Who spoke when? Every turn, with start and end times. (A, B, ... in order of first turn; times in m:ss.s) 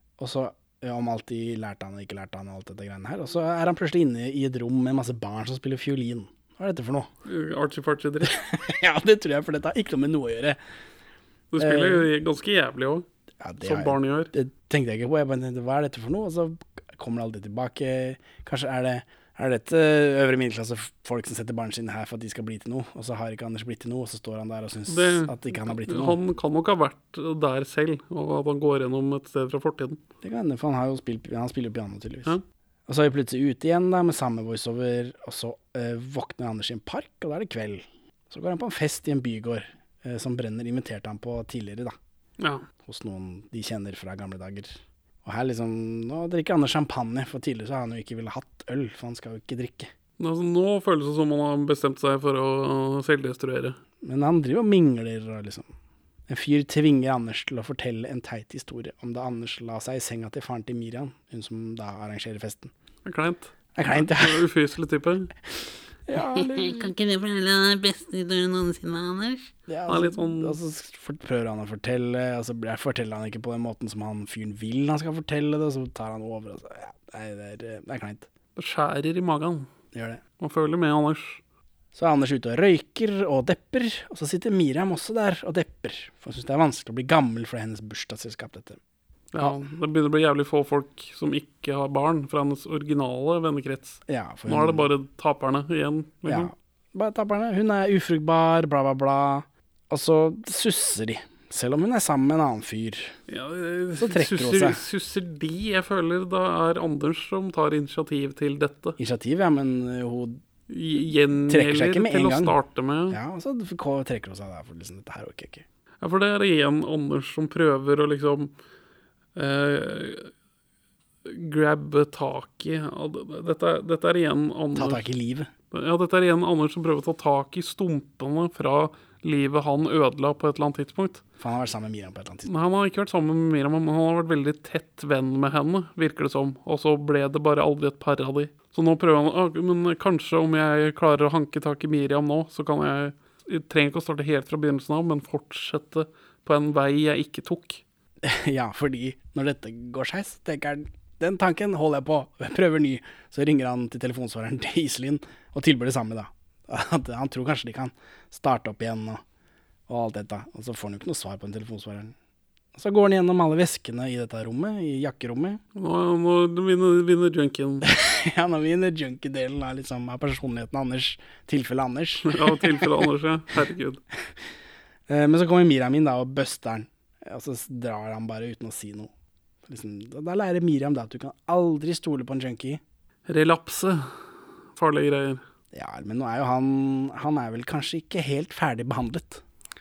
0:00.2-0:07.1 A
0:07.3-0:08.3 B
0:08.2-0:10.6 A
0:11.5-0:13.0 B
0:11.6-0:12.1 A
0:13.4-0:26.2 A
0:13.6-0:14.3 B
0:24.9-0:30.0 B
0:30.2-0:32.3 A
0:32.9-0:42.0 A
0:42.4-0:42.6 B
0:42.8-0:49.9 A
0:50.2-0:53.8 B
0:54.0-0:55.7 A
0:56.3-1:02.7 A
1:03.1-1:05.3 B
1:03.8-1:04.5 A
1:06.1-1:06.9 A
1:06.6-1:09.5 C
1:09.7-1:18.3 A
1:09.9-1:10.6 B
1:18.6-1:19.7 B
1:19.9-1:20.2 A
1:20.4-1:21.4 B
1:22.0-1:28.8 A
1:29.3-1:36.5 B
1:34.1-1:34.9 A
1:36.3-1:43.2 A
1:43.3-1:49.0 B
1:44.0-1:44.8 A
1:49.0-1:50.4 A
1:50.7-1:53.2 B
1:51.5-1:52.6 A
1:53.1-1:55.6 A
1:56.0-1:58.5 B
1:59.4-2:00.3 B
2:01.2-2:05.0 B
2:04.8-2:05.5 A
2:05.7-2:11.2 B
2:11.4-2:12.5 A
2:12.5-2:27.8 B
2:28.2-2:39.2 A
2:39.9-2:42.1 A
2:42.8-2:45.6 A
2:45.8-2:47.9 B
2:47.8-2:52.9 A
2:52.2-2:54.0 B
2:55.1-2:59.1 A
2:59.7-3:02.8 A
3:03.3-3:04.2 B
3:04.8-3:05.4 B
3:05.7-3:09.4 A